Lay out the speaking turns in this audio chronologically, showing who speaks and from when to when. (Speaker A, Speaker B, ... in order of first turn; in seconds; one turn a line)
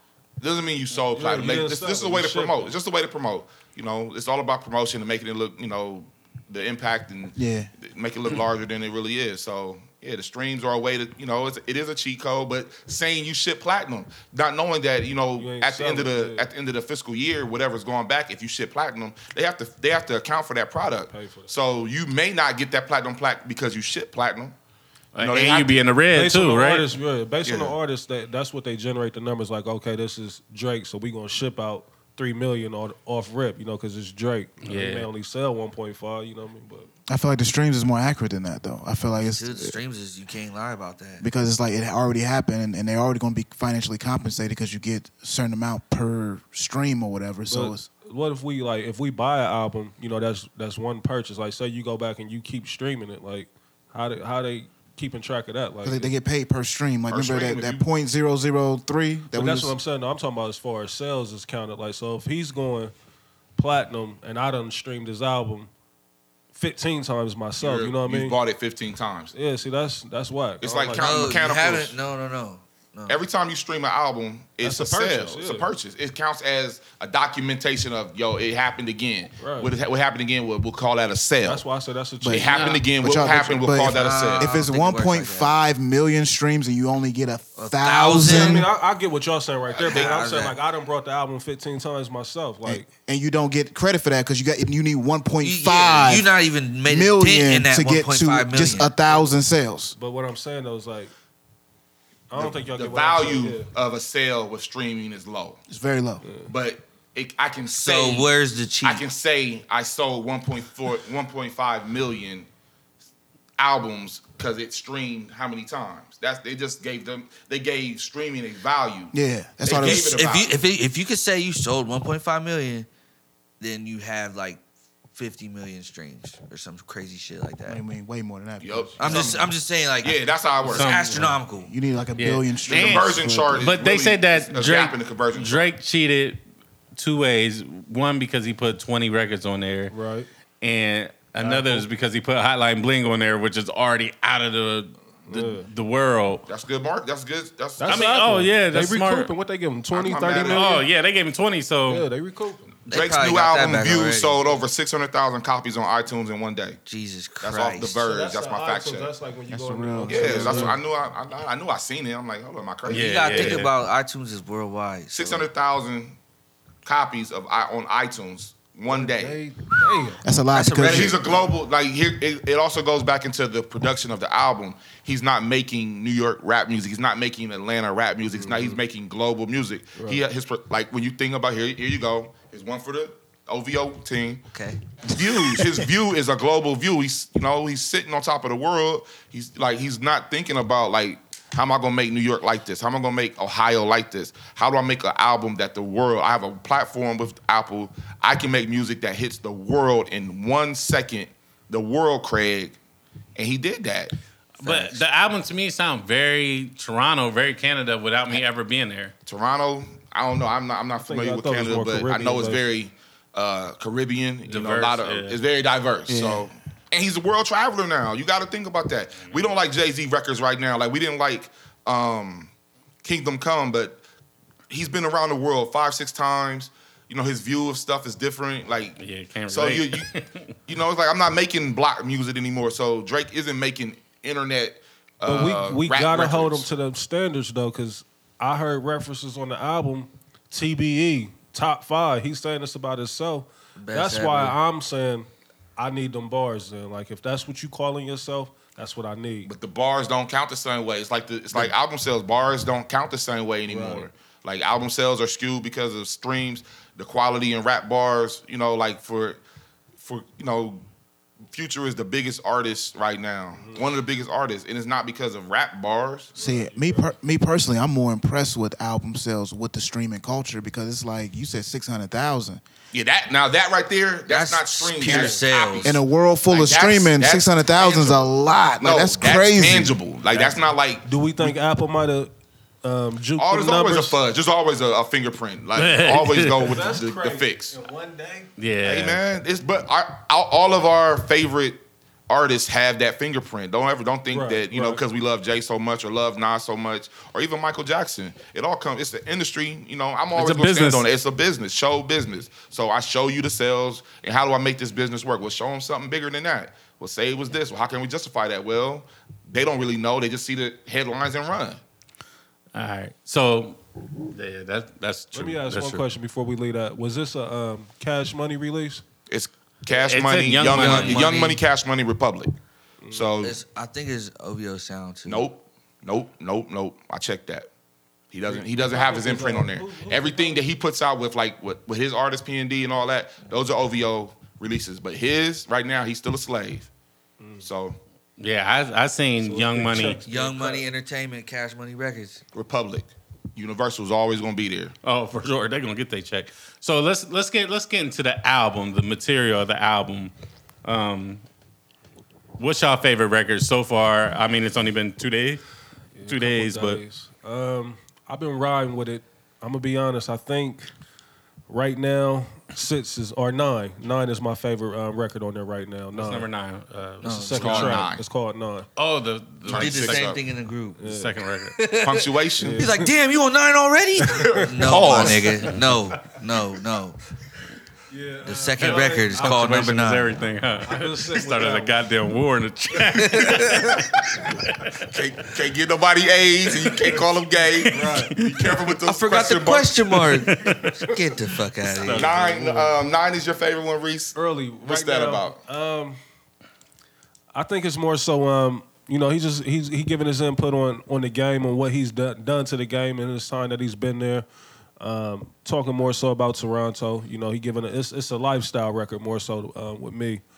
Speaker A: 0.4-24.5
Speaker B: 1.1-2.7
Speaker C: 7.3-7.7
Speaker B: 15.4-16.5
Speaker B: 21.1-21.5
Speaker D: 25.1-26.9
Speaker A: 25.2-25.7
Speaker B: 26.1-36.9
Speaker A: 27.4-27.7
Speaker D: 34.6-35.1
Speaker C: 37.1-39.8
Speaker E: 39.2-41.2
Speaker C: 41.2-47.9
Speaker B: 47.5-56.1
Speaker C: 55.8-59.8
Speaker A: 57.1-57.9
Speaker B: 59.3-62.9
Speaker B: 63.5-65.7
Speaker B: 66.5-68.3
Speaker A: 67.6-69.3
Speaker B: 69.3-71.3
Speaker A: 70.6-72.0
Speaker E: 70.9-73.2
Speaker A: 73.1-81.6
Speaker B: 74.6-75.7
Speaker B: 79.4-79.7
Speaker B: 81.4-82.7
Speaker C: 82.2-88.7
Speaker A: 82.3-84.5
Speaker D: 82.5-82.8
Speaker E: 83.9-85.5
Speaker E: 87.5-88.7
Speaker B: 88.2-92.9
Speaker E: 89.7-90.6
Speaker A: 89.7-90.2
Speaker C: 92.7-96.3
Speaker E: 95.4-98.9
Speaker C: 96.8-99.9
Speaker B: 99.0-99.3
Speaker B: 99.9-101.1
Speaker B: 102.3-103.7
Speaker A: 102.3-105.6
Speaker C: 105.7-106.2
Speaker B: 106.2-106.5
Speaker A: 106.5-108.3
Speaker E: 107.7-109.0
Speaker A: 108.8-112.5
Speaker A: 113.6-119.1
Speaker C: 119.1-120.2
Speaker A: 119.6-120.5
Speaker E: 119.8-122.9
Speaker E: 123.6-124.6
Speaker E: 125.1-127.8
Speaker C: 127.7-129.5
Speaker A: 128.6-129.4
Speaker E: 129.0-131.7
Speaker A: 130.0-130.9
Speaker D: 130.7-131.4
Speaker C: 131.1-133.7
Speaker D: 132.2-136.4
Speaker A: 132.6-135.6
Speaker D: 136.9-139.9
Speaker B: 139.9-140.3
Speaker D: 140.6-146.4
Speaker B: 141.4-141.8
Speaker B: 145.3-145.7
Speaker A: 146.5-148.2
Speaker B: 147.8-150.8
Speaker D: 147.9-149.3
Speaker A: 149.9-150.7
Speaker D: 150.3-152.1
Speaker B: 151.9-152.7
Speaker A: 152.8-156.8
Speaker E: 152.9-154.4
Speaker E: 156.8-158.0
Speaker A: 157.4-159.1
Speaker B: 158.0-160.8
Speaker C: 159.5-160.8
Speaker A: 160.1-163.6
Speaker D: 162.9-163.7
Speaker E: 162.9-165.5
Speaker A: 165.1-166.2
Speaker A: 166.8-169.4
Speaker B: 168.9-170.2
Speaker C: 170.2-171.3
Speaker E: 170.5-171.2
Speaker A: 170.8-184.4
Speaker B: 178.3-178.8
Speaker E: 184.5-184.8
Speaker A: 185.1-202.8
Speaker A: 203.3-204.1
Speaker D: 204.6-209.1
Speaker E: 204.6-205.0
Speaker A: 209.2-222.5
Speaker B: 211.0-212.6
Speaker D: 214.4-215.4
Speaker C: 216.1-216.5
Speaker A: 223.0-224.0
Speaker A: 224.7-230.1
Speaker D: 229.0-230.4
Speaker A: 230.7-236.7
Speaker B: 235.2-249.5
Speaker E: 243.8-244.6
Speaker A: 249.4-259.4
Speaker B: 253.7-254.1
Speaker A: 260.0-260.8
Speaker A: 261.5-266.3
Speaker B: 263.6-263.9
Speaker B: 266.4-267.1
Speaker C: 266.4-272.6
Speaker A: 272.9-278.2
Speaker E: 274.3-276.0
Speaker B: 275.0-275.4
Speaker C: 275.8-280.0
Speaker A: 278.8-281.5
Speaker B: 280.3-282.3
Speaker B: 282.8-284.2
Speaker A: 283.4-287.8
Speaker D: 285.8-286.7
Speaker B: 286.6-288.5
Speaker D: 288.6-289.2
Speaker A: 288.8-311.8
Speaker B: 294.3-295.0
Speaker D: 300.3-301.0
Speaker D: 312.7-316.0
Speaker B: 315.3-319.0
Speaker A: 319.3-322.5
Speaker D: 319.9-321.3
Speaker E: 320.6-321.6
Speaker B: 323.0-323.3
Speaker A: 323.1-323.6
Speaker E: 323.4-325.4
Speaker A: 325.2-327.7
Speaker A: 328.3-336.9
Speaker B: 328.5-330.6
Speaker B: 337.4-337.6
Speaker A: 337.6-338.0
Speaker D: 338.4-340.2
Speaker B: 339.4-340.9
Speaker E: 340.2-342.4
Speaker A: 342.5-344.9
Speaker D: 345.0-350.3
Speaker D: 350.8-351.4
Speaker D: 352.6-355.6
Speaker B: 356.1-360.9
Speaker D: 356.3-357.0
Speaker B: 361.7-366.4
Speaker D: 366.1-368.0
Speaker E: 367.2-367.9
Speaker B: 367.2-368.9
Speaker A: 367.6-368.2
Speaker D: 369.0-370.3
Speaker A: 369.6-370.4
Speaker E: 369.7-371.0
Speaker B: 371.0-371.3
Speaker D: 371.0-371.7
Speaker E: 371.8-377.2
Speaker A: 372.0-372.8
Speaker B: 372.6-373.1
Speaker B: 374.3-375.0
Speaker A: 374.8-375.7
Speaker B: 378.1-379.7
Speaker E: 378.4-380.3
Speaker D: 378.8-384.9
Speaker B: 380.8-382.0
Speaker E: 383.1-383.9
Speaker A: 385.0-390.2
Speaker D: 387.8-388.8
Speaker B: 387.9-388.3
Speaker E: 389.1-392.3
Speaker D: 390.3-390.9
Speaker B: 390.8-391.2
Speaker B: 391.9-392.9
Speaker A: 392.1-395.6
Speaker B: 394.3-396.2
Speaker B: 397.5-404.4
Speaker B: 405.0-410.4